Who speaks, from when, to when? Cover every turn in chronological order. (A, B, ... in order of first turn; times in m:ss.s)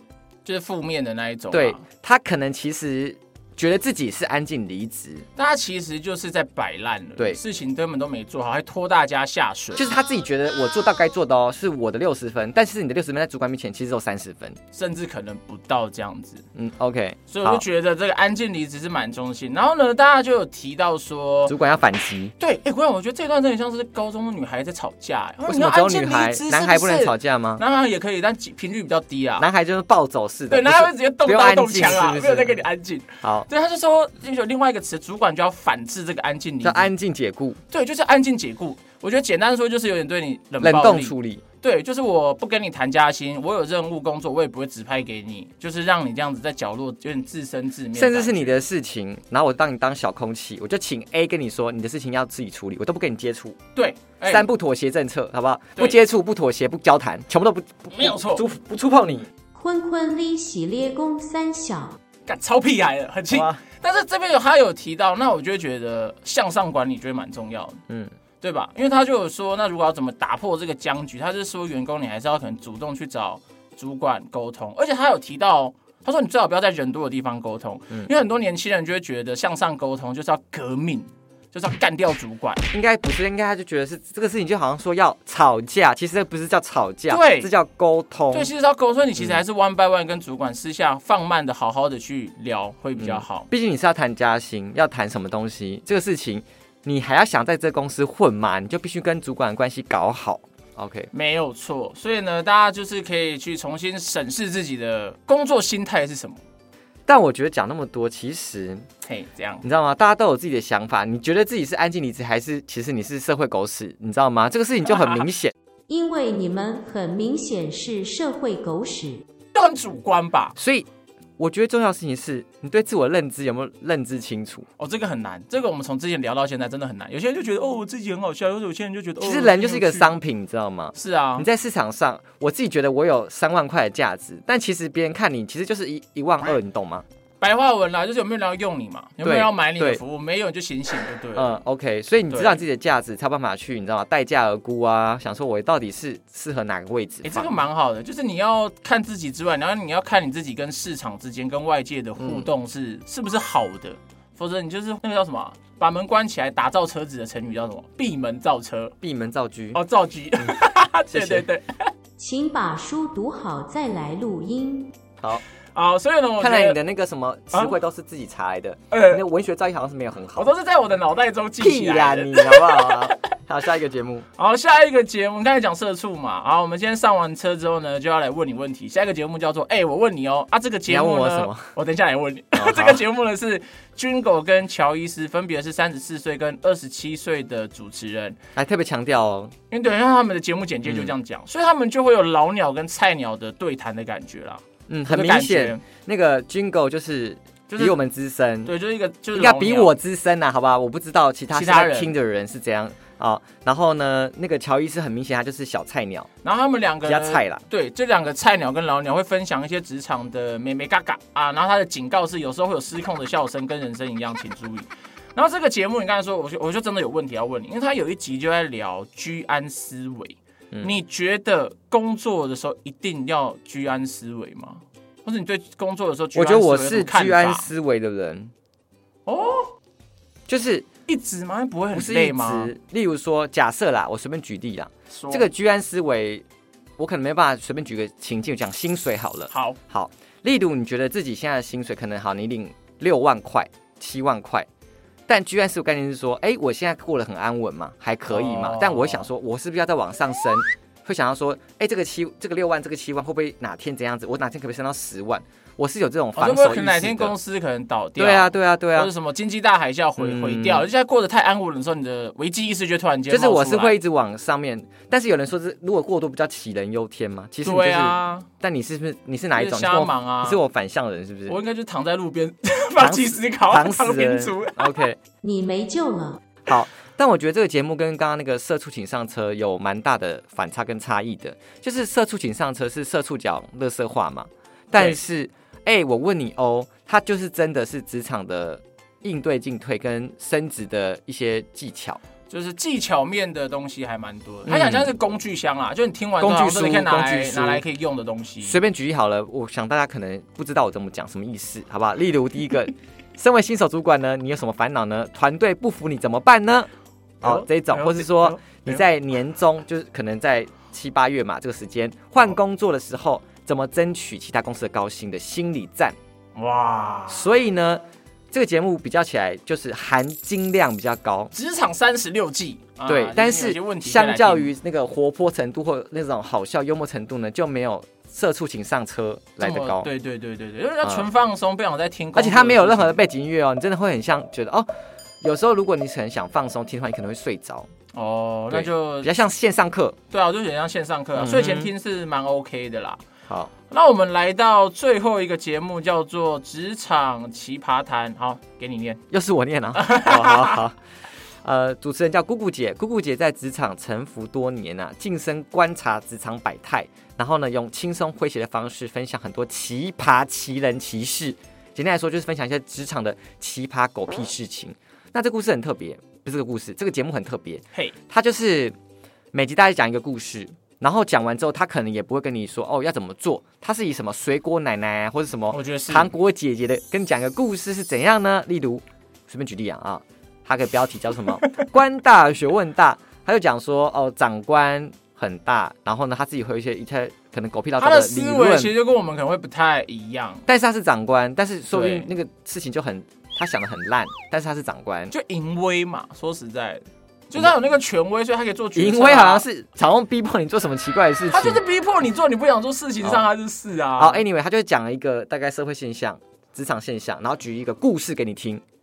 0:00.4-0:01.8 A
0:01.5-0:05.2 B
0:05.4-0:09.9 A
0:09.8-0:14.6 B
0:14.7-0:16.4 A
0:16.5-0:17.6 B
0:17.3-0:21.5 A
0:21.5-0:22.3 B
0:22.4-0:29.4 A
0:25.4-0:27.6 B
0:29.4-0:32.6 B
0:30.5-0:36.9 A
0:36.6-0:37.6 B
0:37.7-0:48.5 A
0:40.6-0:41.4 B
0:47.9-0:53.6 B
0:53.8-0:54.5 A
0:54.2-0:59.3 B
0:57.9-0:58.4 A
0:59.5-1:02.0 C
1:02.3-1:07.8 A
1:03.3-1:03.6 B
1:08.4-1:22.6 A
1:22.7-1:28.5 B
1:27.1-1:27.5 A
1:28.3-1:33.5 A
1:33.0-1:41.1 B
1:41.1-1:46.4 A
1:47.1-1:48.8 B
1:49.0-1:49.6 A
1:49.6-1:55.5 B
1:54.8-1:55.3 A
1:55.9-1:59.2 C
1:59.5-2:00.6 A
2:00.6-2:00.9 B
2:01.4-2:04.6 B
2:04.8-2:10.1 A
2:09.2-2:17.0 B
2:10.9-2:11.4 A
2:17.4-2:21.6 A
2:19.2-2:20.0 B
2:21.3-2:27.6 B
2:22.3-2:22.6 A
2:27.2-2:38.9 A
2:32.2-2:32.5 B
2:39.0-2:39.8 B
2:39.7-2:41.9 A
2:41.1-2:41.5 B
2:42.2-2:44.9 C
2:45.7-2:46.8 A
2:46.4-2:50.5 B
2:47.5-2:47.8 A
2:48.9-2:49.2 A
2:50.4-2:53.2 A
2:51.6-2:54.2 B
2:54.4-3:08.4 A
3:00.9-3:01.7 B
3:02.5-3:03.0 B
3:08.6-3:09.5 B
3:09.7-3:15.8 A
3:10.8-3:11.1 B
3:14.9-3:18.7 B
3:17.7-3:18.0 A
3:18.6-3:19.9 A
3:19.3-3:26.3 B
3:21.5-3:22.1 A
3:26.4-3:47.7 A
3:27.0-3:27.6 B
3:46.3-3:48.5 B
3:49.2-3:49.7 A
3:50.5-3:50.9 B
3:51.1-3:52.7 A
3:51.9-3:56.4 B
3:55.1-3:55.5 A
3:57.0-4:04.7 B
3:59.5-3:59.8 A
4:05.3-4:17.3 B
4:08.3-4:09.2 A
4:16.4-4:24.0 A
4:18.2-4:19.1 B
4:20.2-4:20.9 B
4:23.3-4:31.6 B
4:27.6-4:28.5 A
4:29.6-4:30.6 A
4:31.5-4:35.0 A
4:33.0-4:35.2 B
4:35.4-4:36.4 C
4:36.6-4:52.2 B
4:44.9-4:45.2 A
4:52.5-4:58.8 A
4:54.6-4:55.1 B
4:56.4-4:57.8 B
4:58.6-5:06.9 B
5:07.4-5:16.2 B
5:07.4-5:09.0 A
5:16.5-5:17.5 A
5:17.3-5:21.5 B
5:21.5-5:24.7 A
5:23.1-5:30.1 B
5:29.6-5:33.2 A
5:31.0-5:31.3 B
5:32.3-5:34.9 B
5:35.4-5:37.9 B
5:38.1-5:39.3 A
5:38.7-5:40.2 B
5:40.3-5:43.2 A
5:41.4-5:41.9 B
5:43.9-5:49.2 A
5:49.3-5:51.0 B
5:49.9-5:50.8 A
5:51.6-6:08.9 B
6:09.5-6:28.9 B
6:15.7-6:16.3 A
6:28.0-6:30.6 A
6:30.6-6:35.3 B
6:31.9-6:32.3 A
6:35.3-6:39.6 A
6:38.9-6:41.8 B
6:41.5-6:44.4 A
6:44.2-6:48.8 B